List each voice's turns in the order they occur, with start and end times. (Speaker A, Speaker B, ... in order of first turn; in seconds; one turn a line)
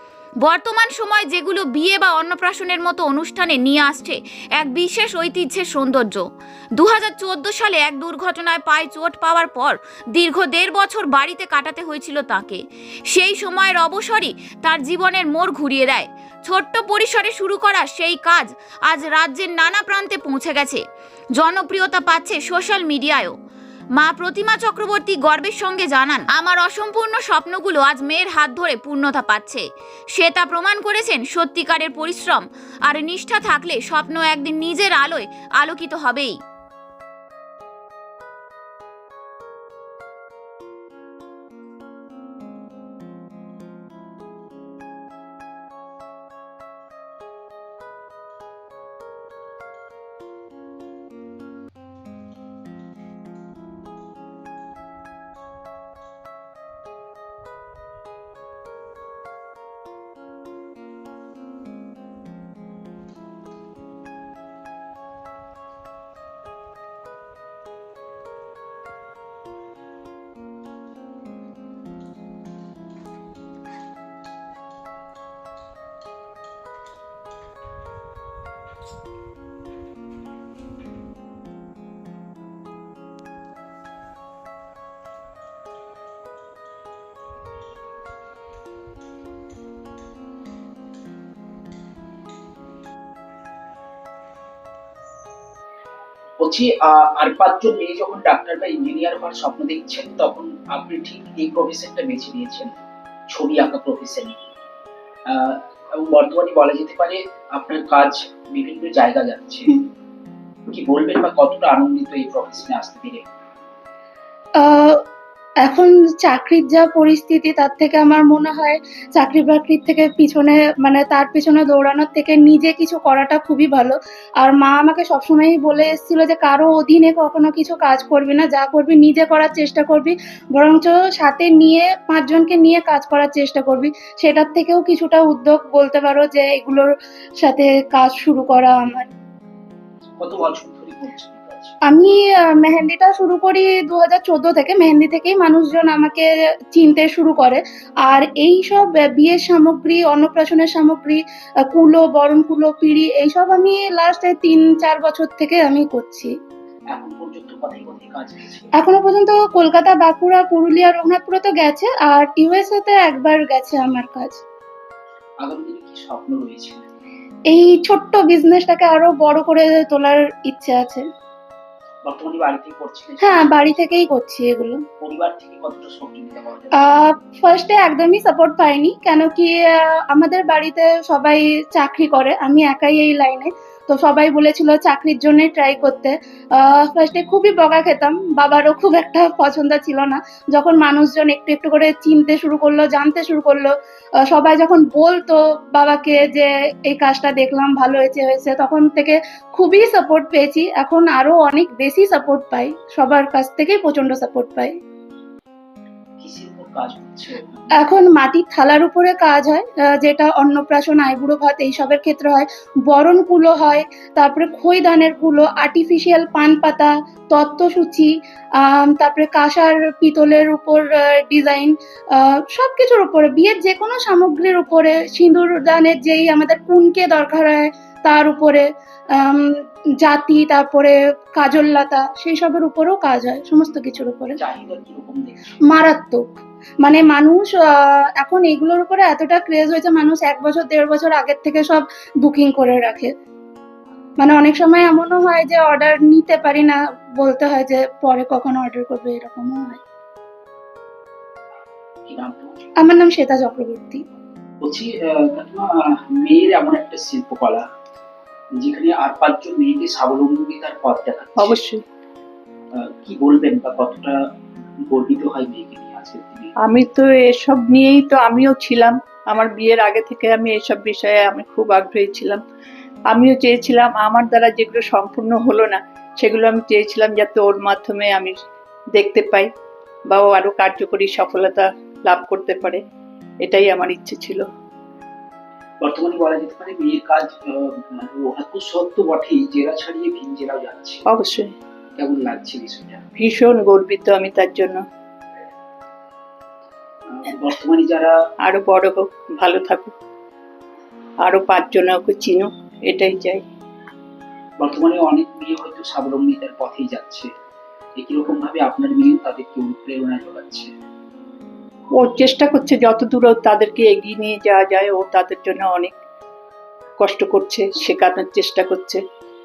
Speaker A: 0.4-20.8
Speaker A: 21.4-23.3
Speaker A: 23.9-36.4
Speaker B: 96.4-102.7
Speaker B: 103.3-104.4
Speaker B: 105.3-109.8
Speaker B: 110.7-113.2
Speaker C: 114.6-115.0
Speaker C: 115.6-139.1
Speaker B: 140.2-141.7
Speaker C: 141.9-156.3
Speaker B: 156.9-158.7
Speaker C: 158.8-164.4
Speaker B: 165.4-166.8
Speaker C: 167.5-171.1
Speaker B: 172.0-173.7
Speaker C: 173.2-174.8
Speaker B: 175.0-176.9
Speaker C: 176.8-204.8
Speaker B: 206.2-207.9
Speaker C: 207.8-234.4
Speaker B: 234.3-235.5
Speaker C: 235.7-243.1
Speaker C: 244.2-249.8
Speaker B: 252.1-252.5
Speaker C: 252.8-254.0
Speaker B: 254.6-257.6
Speaker B: 258.6-261.6
Speaker D: 261.4-261.8
Speaker B: 262.7-264.2
Speaker B: 264.8-266.5
Speaker D: 266.6-272.4
Speaker D: 273.1-278.4
Speaker D: 278.9-279.5
Speaker D: 280.1-282.8
Speaker D: 283.4-284.4
Speaker B: 285.8-291.0
Speaker D: 291.1-291.5
Speaker B: 292.0-293.0
Speaker D: 293.2-294.8
Speaker B: 297.1-298.1
Speaker D: 298.4-299.9
Speaker D: 301.2-303.4
Speaker B: 304.6-307.3
Speaker B: 307.9-310.7
Speaker D: 311.9-316.0
Speaker D: 317.0-319.0